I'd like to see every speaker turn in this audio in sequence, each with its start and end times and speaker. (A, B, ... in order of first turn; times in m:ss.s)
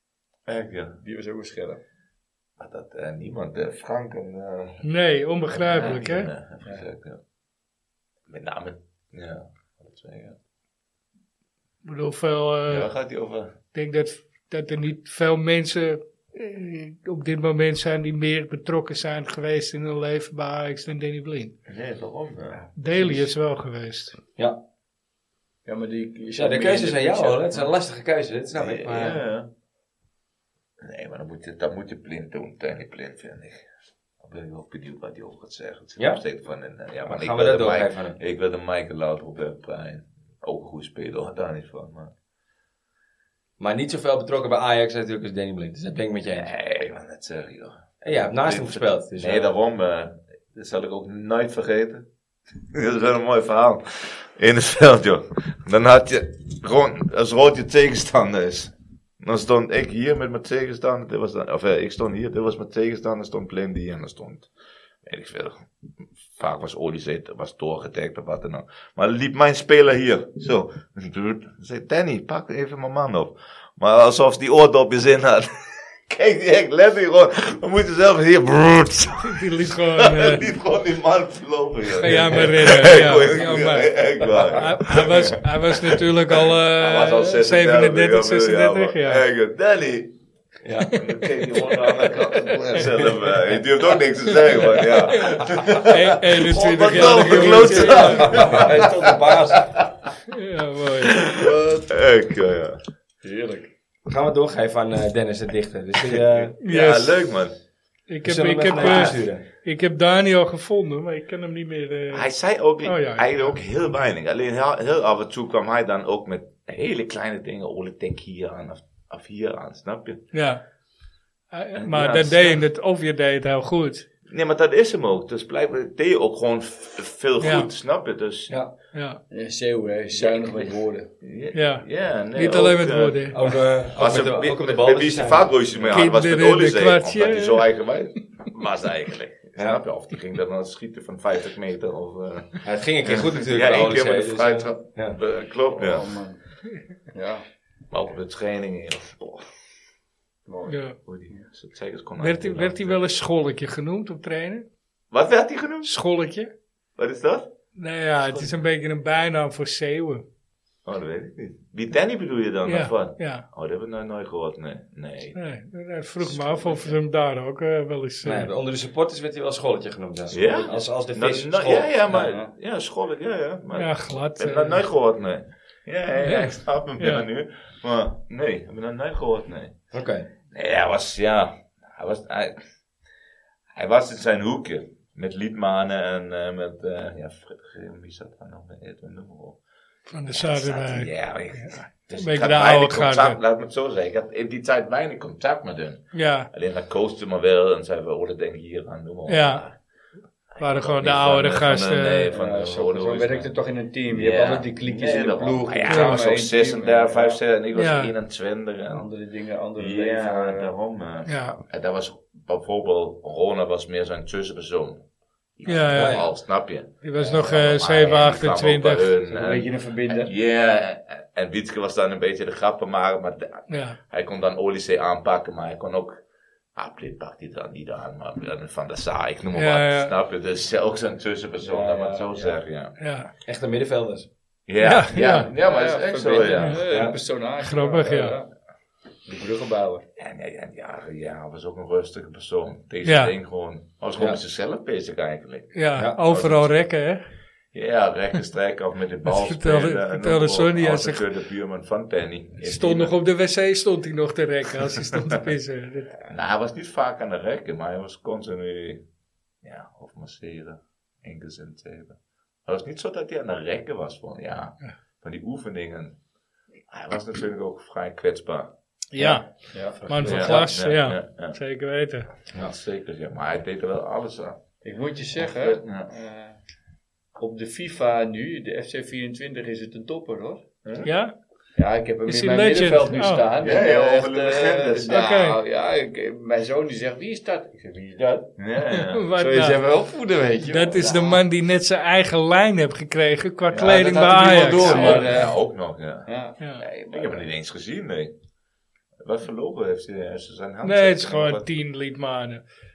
0:00.5-0:01.0 A
0:01.0-0:01.8 B
0:02.6-0:04.8 A
0:04.8-0:06.3 C
0:05.5-0:07.2 A
0:08.3-0:10.4 A
0:11.8-0:12.9 C
0:12.7-0:13.5 A
0:13.7-0:21.5 C
0:21.7-0:22.6 A
0:22.5-0:23.2 B
0:22.8-0:24.2 C
0:25.6-0:27.7 B
0:26.4-0:29.2 D
0:28.6-0:29.5 A
0:30.8-0:33.6 A
0:34.2-0:42.1 A
0:36.0-0:36.2 D
0:37.0-0:38.2 D
0:43.6-0:46.5 D
0:46.3-0:52.0 A
0:48.0-0:49.5 D
0:52.7-1:04.5 A
1:05.0-1:05.7 A
1:06.3-1:30.1 A
1:19.2-1:20.5 C
1:21.9-1:29.2 C
1:30.6-1:30.9 D
1:30.8-1:33.1 C
1:31.0-1:39.8 A
1:34.6-1:38.5 C
1:36.9-1:39.8 B
1:38.2-1:38.7 D
1:40.3-1:41.2 C
1:41.2-1:42.8 A
1:43.2-1:43.7 B
1:44.1-1:46.5 D
1:46.1-1:47.5 A
1:46.6-1:47.2 C
1:48.1-1:52.3 C
1:48.2-1:49.4 D
1:48.7-1:49.1 A
1:52.1-2:00.2 A
1:52.8-1:53.6 C
2:00.3-2:00.6 C
2:01.5-2:04.1 C
2:01.7-2:02.6 A
2:04.3-2:08.5 A
2:07.4-2:07.7 C
2:08.9-2:09.2 C
2:09.3-2:11.1 B
2:11.2-2:26.1 A
2:11.5-2:13.4 C
2:13.3-2:15.9 D
2:15.9-2:17.7 C
2:19.6-2:19.8 D
2:22.6-2:25.2 D
2:25.7-2:26.4 B
2:27.1-2:27.4 B
2:27.9-2:29.4 A
2:30.5-2:30.8 B
2:30.7-2:31.0 C
2:31.0-2:33.0 A
2:32.2-2:34.6 C
2:35.1-2:35.9 A
2:35.8-2:36.5 C
2:37.0-2:37.5 A
2:37.8-2:40.2 C
2:40.8-2:45.4 A
2:42.6-2:43.5 C
2:45.3-2:48.5 C
2:46.2-2:47.0 A
2:48.2-2:52.3 D
2:50.3-2:59.8 A
2:52.1-2:52.5 B
2:53.7-2:54.8 C
2:56.2-2:57.2 C
2:59.9-3:00.3 D
3:00.5-3:02.6 A
3:03.7-3:09.6 A
3:10.1-3:13.4 C
3:10.3-3:19.8 A
3:16.1-3:16.5 C
3:19.3-3:19.6 C
3:20.5-3:23.5 A
3:20.6-3:22.3 C
3:22.3-3:27.4 B
3:24.1-3:29.0 A
3:25.9-3:26.4 C
3:27.8-3:28.1 C
3:28.9-3:30.7 B
3:29.8-3:35.0 A
3:31.2-3:31.6 C
3:35.6-3:46.2 A
3:35.6-3:36.4 C
3:35.9-3:36.3 D
3:37.0-3:39.1 C
3:39.3-3:40.3 B
3:43.7-3:44.0 C
3:46.8-3:53.0 A
3:49.5-3:50.1 C
3:51.6-3:52.5 D
3:51.9-3:52.4 B
3:53.0-3:53.3 C
3:53.4-3:54.3 D
3:54.7-3:56.8 A
3:54.8-3:55.5 C
3:55.5-3:58.5 B
3:56.6-3:56.8 C
3:56.9-3:57.2 D
3:57.6-3:58.4 C
3:59.2-4:00.0 B
4:00.2-4:06.8 A
4:03.0-4:03.3 C
4:05.7-4:07.2 C
4:07.7-4:13.2 A
4:09.2-4:11.2 C
4:12.6-4:16.1 C
4:16.3-4:19.0 A
4:19.6-4:26.2 A
4:26.9-4:29.4 A
4:29.1-4:32.3 C
4:29.7-4:30.5 B
4:30.0-4:30.7 D
4:30.2-4:31.6 A
4:32.5-4:34.6 A
4:34.8-4:36.6 B
4:35.4-4:36.1 A
4:37.4-4:40.6 B
4:41.0-4:41.3 C
4:41.8-4:48.6 B
4:42.2-4:43.4 C
4:43.6-4:45.1 A
4:45.1-4:45.6 C
4:48.6-4:49.3 A
4:48.9-4:49.8 C
4:49.4-4:51.4 B
4:50.6-4:55.4 C
4:53.7-4:56.3 A
4:53.8-4:55.6 B
4:56.2-4:57.5 B
4:57.1-4:58.3 A
4:59.2-5:01.6 A
5:00.8-5:02.6 C